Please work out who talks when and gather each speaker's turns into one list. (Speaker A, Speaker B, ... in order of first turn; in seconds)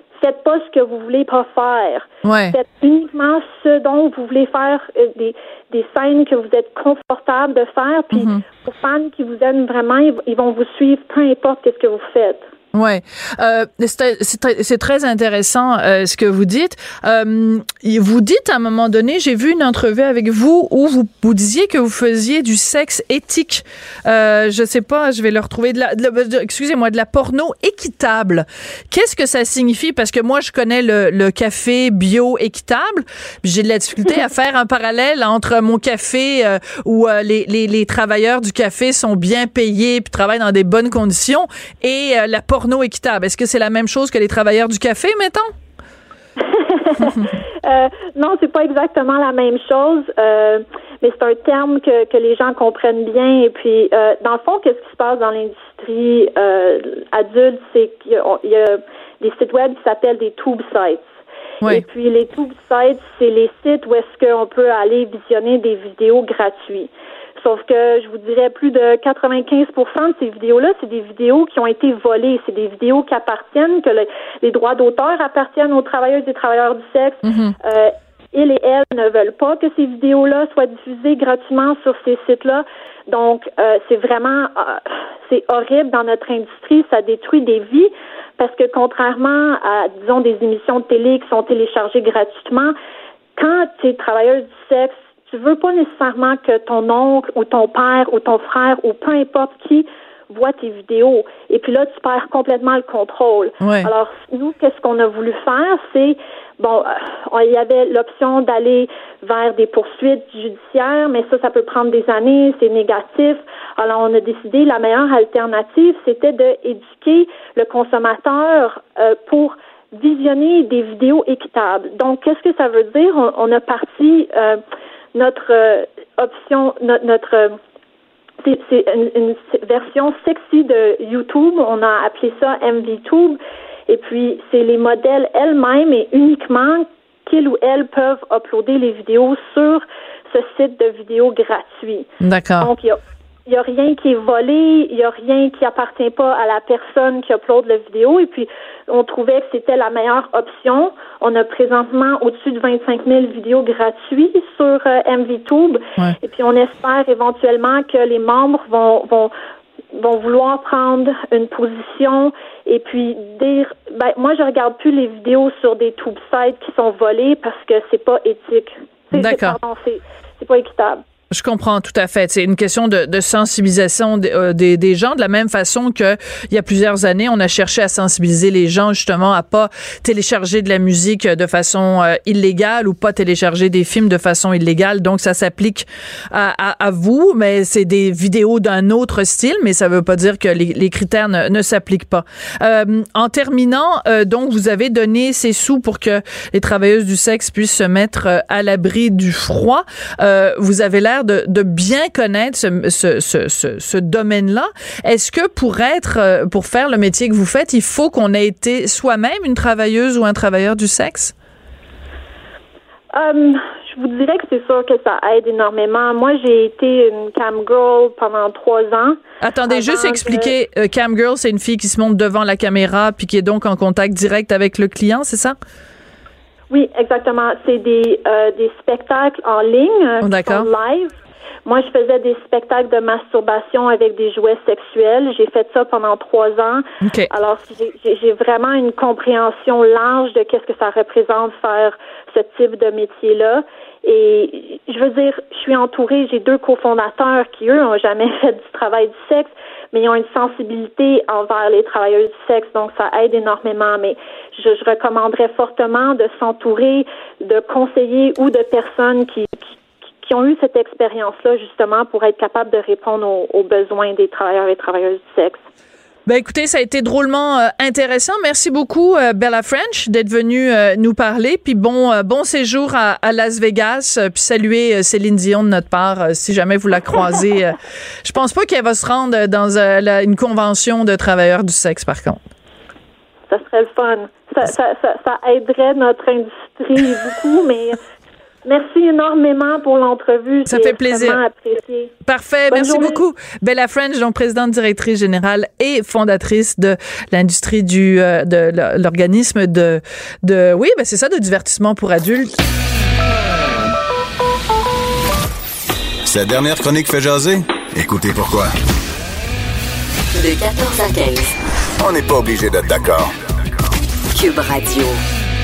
Speaker A: 0.2-12.5, 46.4-61.0, 61.6-92.7, 93.3-124.6, 125.1-127.6, 128.4-142.1, 142.6-159.3, 159.9-171.0, 213.1-219.2, 219.7-220.5, 226.7-231.1, 231.7-259.7, 260.2-265.6, 283.5-288.0, 288.6-292.1, 292.7-293.2
Speaker B: 2.2-2.6, 8.1-8.4, 12.7-45.5, 77.2-77.5, 103.6-103.9, 142.2-142.7, 169.1-169.6, 171.3-211.3, 219.4-225.6, 230.2-230.7, 237.0-237.3, 266.2-282.4, 290.6-291.4, 292.2-302.5
Speaker C: 306.2-308.7, 312.0-313.3
Speaker D: 310.3-311.5, 314.3-315.2